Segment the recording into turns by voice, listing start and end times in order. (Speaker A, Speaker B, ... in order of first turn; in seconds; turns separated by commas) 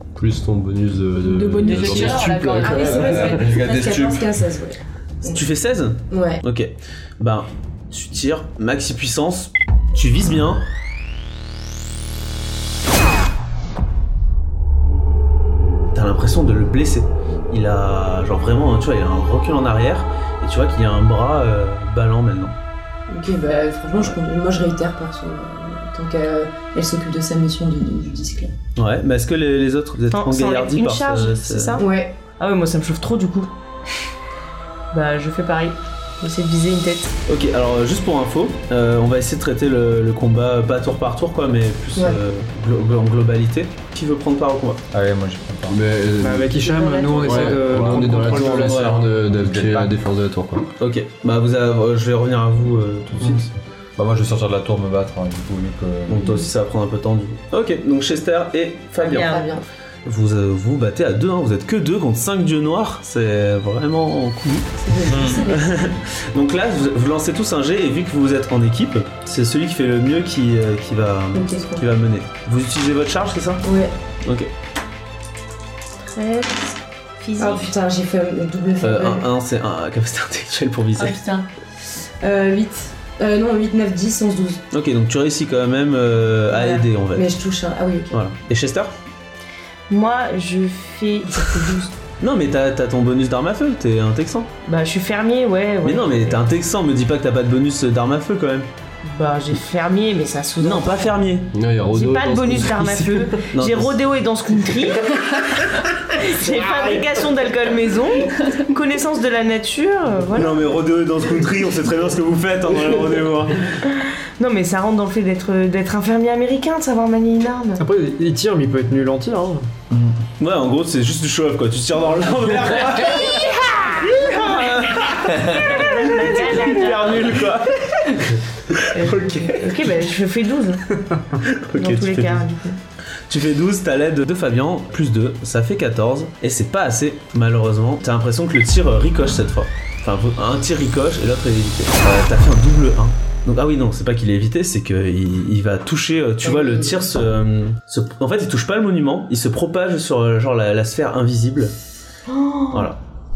Speaker A: 0.2-3.6, Speaker B: 1.2-3.2, Speaker C: 2.6-5.5, Speaker D: 2.8-4.3, Speaker E: 5.3-10.7, Speaker C: 6.1-6.4, Speaker E: 15.9-22.6, Speaker C: 23.1-28.6, Speaker E: 28.8-31.8, Speaker F: 30.1-33.5, Speaker C: 31.8-32.1, Speaker F: 34.9-37.2, Speaker E: 37.3-44.8, Speaker D: 44.9-45.8, Speaker A: 45.7-46.6, Speaker G: 46.2-48.9, Speaker C: 46.7-47.5, Speaker A: 47.2-50.7, Speaker E: 48.2-49.1, Speaker D: 49.3-50.0, Speaker E: 50.8-53.5, Speaker D: 54.0-56.2, Speaker E: 56.1-59.3, Speaker F: 59.0-59.5, Speaker C: 59.1-59.7, Speaker E: 60.0-64.8, Speaker C: 64.8-65.9, Speaker D: 65.1-65.5, Speaker E: 65.3-73.6, Speaker C: 71.3-71.8, Speaker C: 73.6-73.9, Speaker E: 74.2-74.5, Speaker F: 76.0-77.8, Speaker C: 77.4-79.3, Speaker E: 78.8-81.2, Speaker B: 81.0-81.5, Speaker C: 82.2-84.6, Speaker E: 84.7-87.3, Speaker C: 86.6-88.2, Speaker E: 88.1-88.9, Speaker F: 89.9-92.0, Speaker E: 92.2-94.5, Speaker F: 94.7-96.4, Speaker E: 95.8-98.7, Speaker F: 99.0-101.1, Speaker E: 100.6-101.5, Speaker A: 101.5-103.4, Speaker F: 101.9-110.8, Speaker E: 103.5-104.0, Speaker E: 110.3-113.7, Speaker F: 113.8-117.8, Speaker G: 117.8-119.7, Speaker D: 119.9-120.2, Speaker E: 120.4-129.8, Speaker F: 123.6-127.5, Speaker F: 128.9-130.8, Speaker E: 131.4-132.5, Speaker F: 131.8-132.8, Speaker E: 133.3-151.7, Speaker C: 146.4-147.1, Speaker F: 152.3-152.9, Speaker E: 152.7-153.0